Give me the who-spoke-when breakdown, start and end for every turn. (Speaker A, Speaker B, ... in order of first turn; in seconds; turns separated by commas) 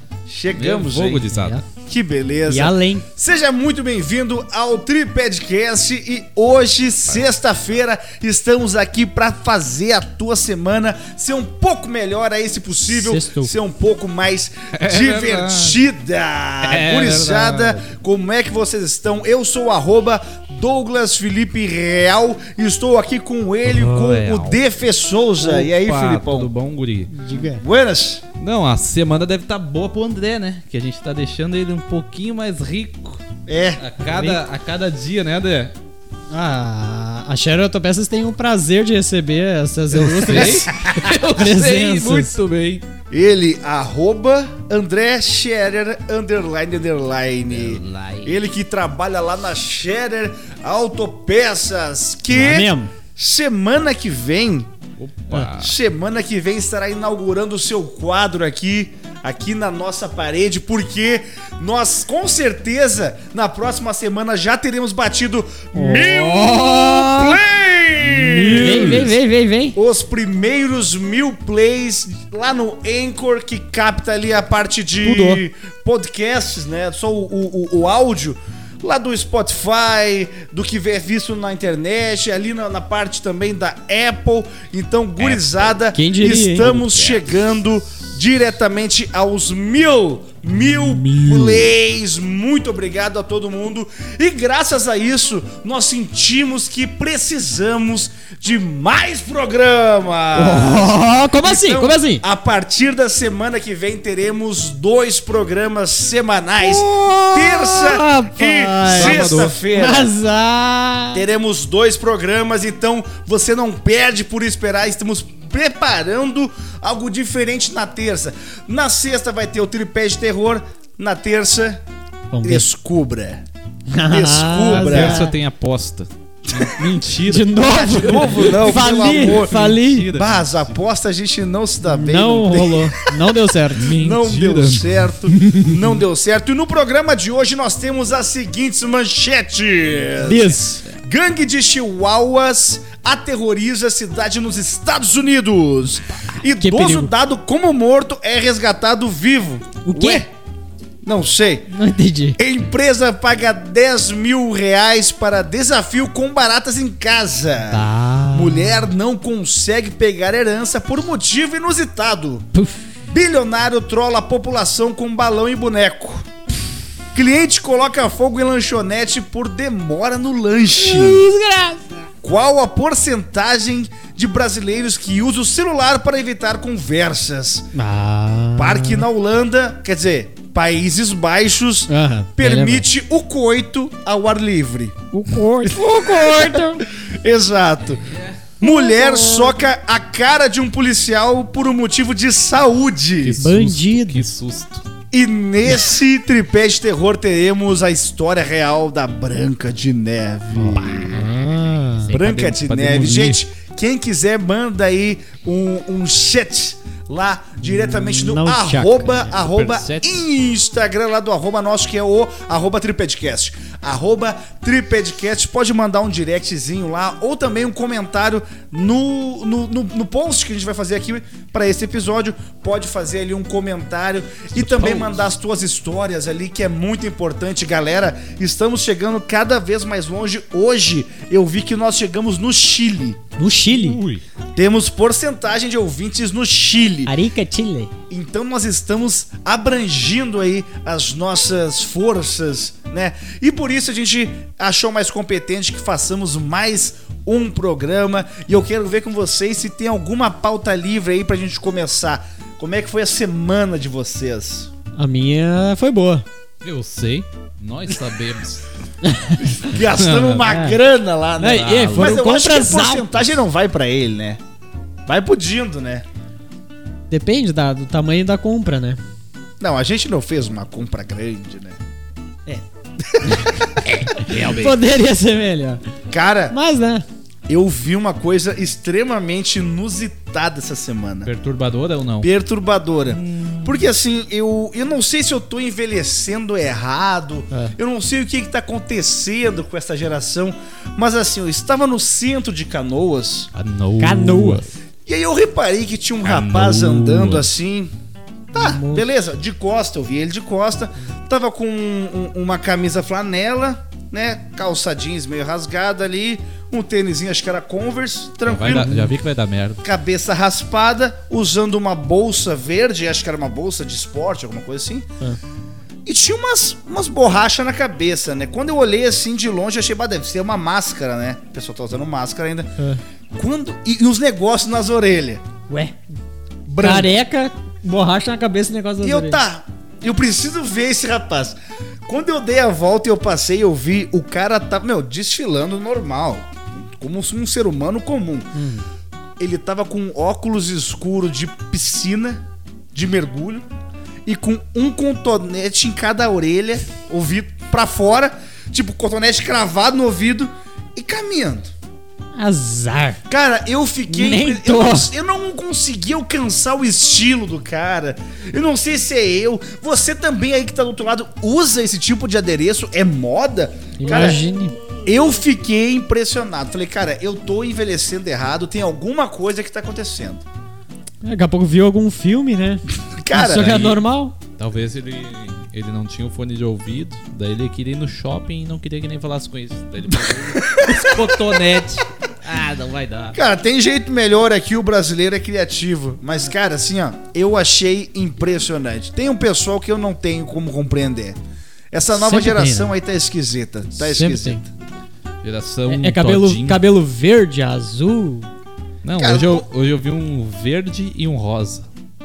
Speaker A: 0.3-26.5, Speaker B: 0.6-1.6, Speaker C: 1.3-1.6, Speaker C: 2.5-3.1, Speaker C: 12.9-13.5, Speaker B: 14.8-15.8, Speaker B: 16.6-17.9, Speaker B: 23.7-24.6, Speaker B: 25.4-27.2, Speaker C: 27.1-27.6, Speaker A: 27.4-28.2, Speaker B: 28.4-33.2, Speaker A: 33.5-33.8, Speaker B: 33.8-35.7, Speaker C: 34.1-34.4, Speaker C: 36.3-40.7, Speaker B: 39.9-42.8, Speaker A: 40.3-41.1, Speaker C: 41.3-42.3, Speaker A: 43.1-54.7, Speaker B: 47.5-48.4, Speaker C: 52.3-52.9, Speaker B: 55.0-55.8, Speaker A: 55.5-69.1, Speaker C: 65.8-67.4, Speaker B: 68.1-69.1, Speaker C: 68.2-69.8, Speaker A: 69.8-110.1, Speaker C: 75.0-75.4, Speaker B: 85.2-85.8, Speaker C: 85.9-87.0, Speaker B: 86.8-87.3, Speaker B: 90.7-91.7, Speaker C: 100.3-102.2, Speaker C: 106.6-111.2, Speaker B: 108.9-109.6, Speaker A: 111.1-121.8, Speaker C: 122.3-122.7, Speaker A: 122.4-123.5, Speaker C: 123.9-125.3, Speaker A: 124.1-125.2, Speaker B: 124.7-130.7, Speaker C: 127.2-130.1, Speaker A: 127.6-129.6, Speaker A: 130.1-133.0, Speaker C: 131.9-133.9, Speaker B: 133.7-135.2, Speaker A: 133.7-150.3, Speaker C: 140.2-140.8, Speaker C: 146.4-147.1, Speaker C: 149.8-150.2, Speaker A: 151.0-151.7, Speaker C: 151.7-152.4, Speaker A: 152.4-162.5, Speaker C: 157.7-158.9, Speaker C: 162.5-162.8, Speaker A: 163.1-166.3, Speaker A: 167.1-171.2, Speaker C: 170.8-172.0, Speaker A: 172.2-177.7, Speaker C: 177.7-179.1, Speaker A: 178.6-185.0, Speaker C: 181.9-182.9, Speaker C: 185.1-186.8, Speaker A: 185.7-188.1, Speaker B: 188.1-188.3, Speaker A: 188.6-193.4, Speaker C: 188.6-189.6, Speaker B: 193.2-194.9, Speaker C: 193.4-194.2, Speaker A: 195.1-201.2, Speaker B: 200.7-201.3, Speaker C: 201.1-202.1, Speaker B: 202.1-203.4, Speaker A: 202.1-233.2, Speaker C: 207.6-209.3, Speaker B: 209.3-210.2, Speaker B: 224.5-225.2, Speaker C: 233.4-234.0, Speaker B: 233.7-234.2, Speaker A: 234.6-237.1, Speaker C: 237.1-237.9, Speaker A: 238.1-254.7, Speaker C: 255.0-256.2, Speaker B: 256.6-258.6, Speaker C: 259.0-259.4, Speaker A: 259.4-264.4, Speaker B: 259.9-260.5, Speaker C: 260.4-260.8, Speaker C: 261.4-263.2, Speaker B: 261.5-262.1, Speaker A: 265.1-266.1, Speaker C: 267.1-269.0, Speaker A: 269.6-271.8, Speaker C: 273.2-273.5, Speaker B: 274.0-274.8, Speaker C: 274.3-275.8, Speaker A: 276.1-276.6, Speaker C: 276.5-277.1, Speaker A: 277.5-281.3, Speaker B: 281.2-282.3, Speaker A: 282.2-293.5, Speaker B: 283.1-283.9, Speaker B: 293.5-294.7, Speaker C: 294.0-294.7, Speaker A: 295.1-297.9, Speaker B: 296.2-297.5, Speaker A: 298.5-309.0, Speaker C: 298.6-299.1, Speaker B: 308.4-309.8, Speaker C: 308.7-309.1, Speaker A: 309.8-315.1, Speaker A: 316.1-322.7, Speaker A: 323.4-325.4, Speaker C: 325.7-325.9, Speaker A: 326.7-327.1, Speaker C: 326.8-329.4, Speaker A: 329.0-331.6, Speaker A: 332.1-338.5, Speaker C: 338.5-338.9, Speaker A: 339.4-343.6, Speaker A: 344.3-351.7, Speaker C: 352.4-353.2, Speaker A: 353.3-364.4, Speaker C: 354.1-355.1, Speaker C: 364.0-364.8, Speaker A: 365.1-370.4, Speaker C: 371.2-374.4, Speaker A: 373.2-373.8, Speaker B: 373.5-374.0, Speaker B: 374.6-383.4, Speaker A: 380.3-381.4, Speaker A: 383.3-391.4, Speaker A: 391.9-394.7, Speaker C: 392.1-392.9, Speaker C: 394.0-394.6, Speaker B: 395.4-396.8, Speaker C: 395.9-398.5, Speaker B: 399.0-401.9, Speaker A: 399.2-399.7